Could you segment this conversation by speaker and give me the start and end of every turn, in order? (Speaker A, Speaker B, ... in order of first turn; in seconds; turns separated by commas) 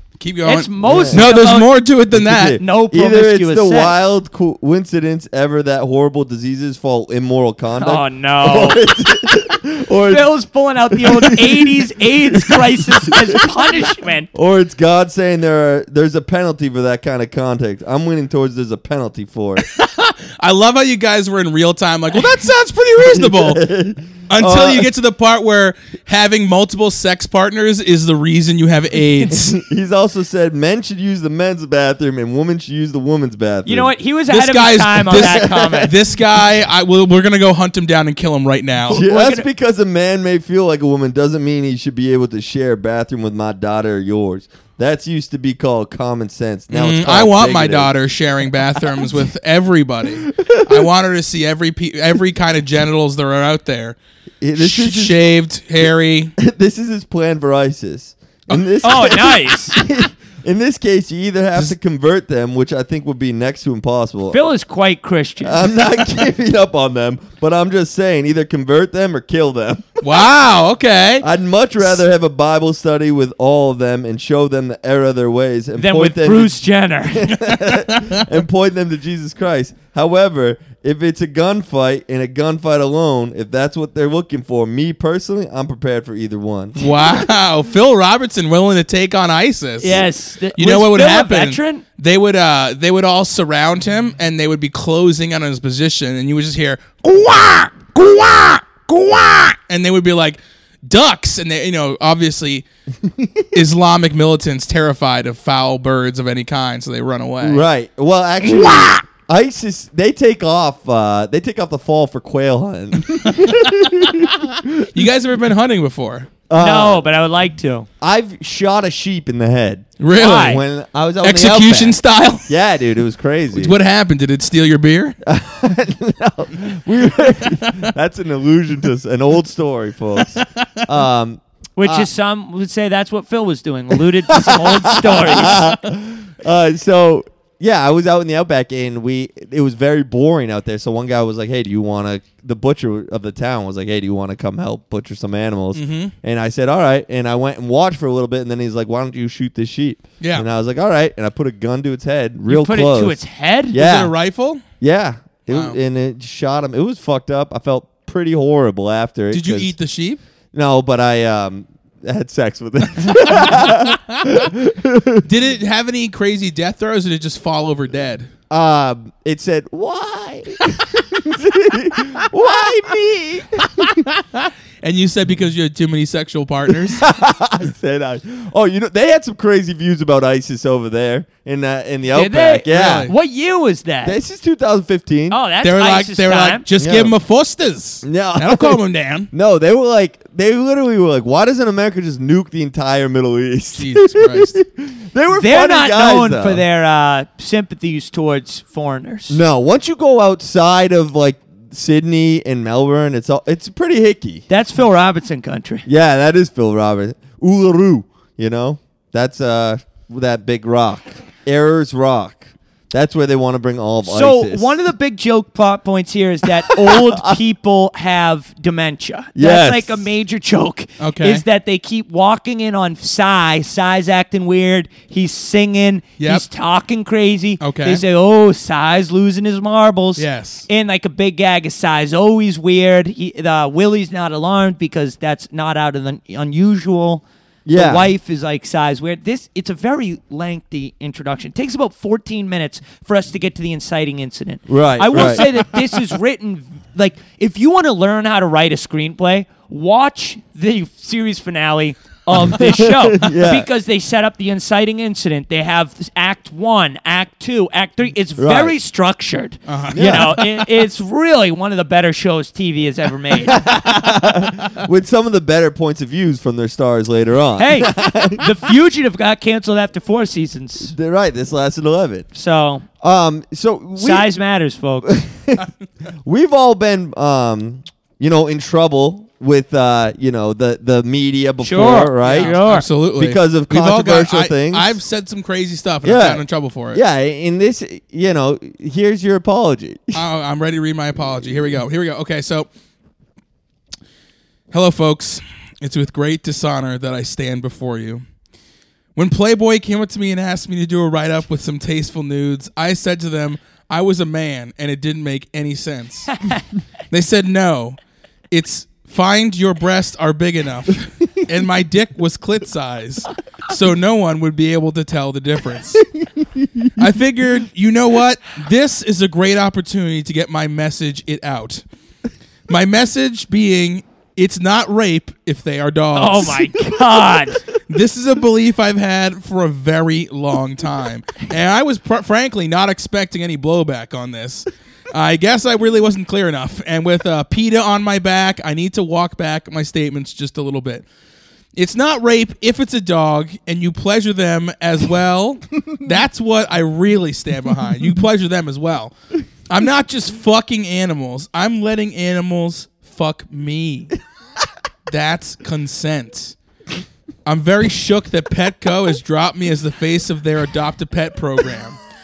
Speaker A: 0.2-2.6, Speaker B: 0.5-1.7, Speaker C: 0.8-1.2, Speaker C: 2.1-10.2, Speaker B: 2.6-4.0, Speaker B: 7.8-8.8, Speaker B: 10.1-14.3, Speaker C: 10.9-13.4, Speaker C: 14.3-19.7, Speaker A: 19.7-23.7, Speaker C: 23.0-24.9, Speaker A: 24.3-29.6, Speaker C: 29.2-33.9, Speaker B: 33.7-35.9, Speaker A: 34.3-39.0, Speaker C: 35.1-35.9, Speaker C: 38.9-47.9, Speaker B: 38.9-39.5, Speaker A: 46.7-54.0, Speaker C: 48.8-49.1, Speaker C: 50.3-50.9, Speaker C: 54.4-55.2, Speaker A: 54.6-56.3, Speaker C: 56.4-64.4, Speaker B: 58.8-59.8, Speaker B: 64.3-65.6, Speaker C: 65.4-70.0, Speaker A: 70.0-71.3, Speaker C: 71.2-76.6, Speaker B: 75.8-77.3, Speaker C: 77.1-87.3, Speaker A: 77.5-78.2, Speaker A: 86.8-102.6, Speaker B: 89.8-91.8, Speaker C: 103.2-103.4, Speaker A: 103.5-107.6, Speaker C: 107.4-114.9, Speaker A: 108.4-109.0, Speaker A: 113.1-116.3, Speaker C: 116.5-117.0, Speaker B: 116.6-117.9, Speaker C: 118.0-123.8, Speaker A: 120.0-120.6, Speaker B: 120.2-120.6, Speaker A: 121.2-122.5, Speaker A: 123.5-125.2, Speaker C: 125.2-132.1, Speaker A: 127.5-127.9, Speaker B: 131.8-135.6, Speaker C: 134.3-153.2, Speaker A: 145.8-146.1, Speaker A: 150.2-150.5, Speaker B: 152.5-153.8, Speaker C: 153.7-154.1, Speaker A: 153.7-154.6, Speaker C: 154.8-159.7, Speaker A: 155.5-155.8, Speaker A: 159.3-160.2, Speaker C: 160.5-165.2, Speaker A: 163.1-164.4, Speaker A: 165.2-168.3, Speaker C: 168.5-174.0, Speaker A: 173.8-177.0, Speaker C: 176.7-183.1, Speaker B: 182.1-184.2, Speaker A: 182.7-183.1, Speaker C: 184.0-185.4, Speaker B: 185.3-186.6, Speaker A: 185.6-189.3, Speaker C: 186.8-187.1, Speaker C: 188.0-196.6, Speaker A: 193.8-194.6, Speaker B: 195.3-199.4, Speaker C: 199.3-204.4, Speaker B: 204.5-205.9, Speaker C: 205.9-214.7, Speaker B: 214.1-263.6, Speaker C: 216.7-217.4, Speaker C: 219.3-220.1, Speaker A: 221.0-221.4, Speaker A: 226.2-226.4, Speaker A: 227.6-228.0, Speaker A: 230.2-230.7, Speaker C: 237.7-238.1, Speaker C: 244.7-245.6, Speaker C: 252.5-253.7, Speaker C: 258.4-258.8, Speaker A: 259.7-260.5, Speaker C: 259.9-260.4, Speaker C: 263.5-268.5, Speaker B: 267.6-270.9, Speaker C: 270.9-272.3, Speaker B: 272.3-272.9, Speaker C: 273.0-274.3, Speaker B: 274.0-275.2, Speaker C: 275.1-275.7, Speaker C: 276.2-282.6, Speaker B: 281.6-282.9, Speaker A: 282.2-287.0, Speaker C: 283.2-285.0, Speaker C: 286.0-290.2, Speaker A: 290.1-292.7, Speaker A: 294.7-298.2, Speaker A: 299.1-306.4, Speaker A: 307.1-308.0, Speaker A: 308.5-316.1, Speaker C: 316.2-317.0, Speaker A: 316.9-321.8, Speaker A: 322.7-326.8, Speaker B: 326.1-327.6, Speaker A: 327.9-341.1, Speaker A: 341.8-349.1, Speaker A: 349.7-354.1, Speaker A: 355.1-356.6, Speaker A: 357.4-362.0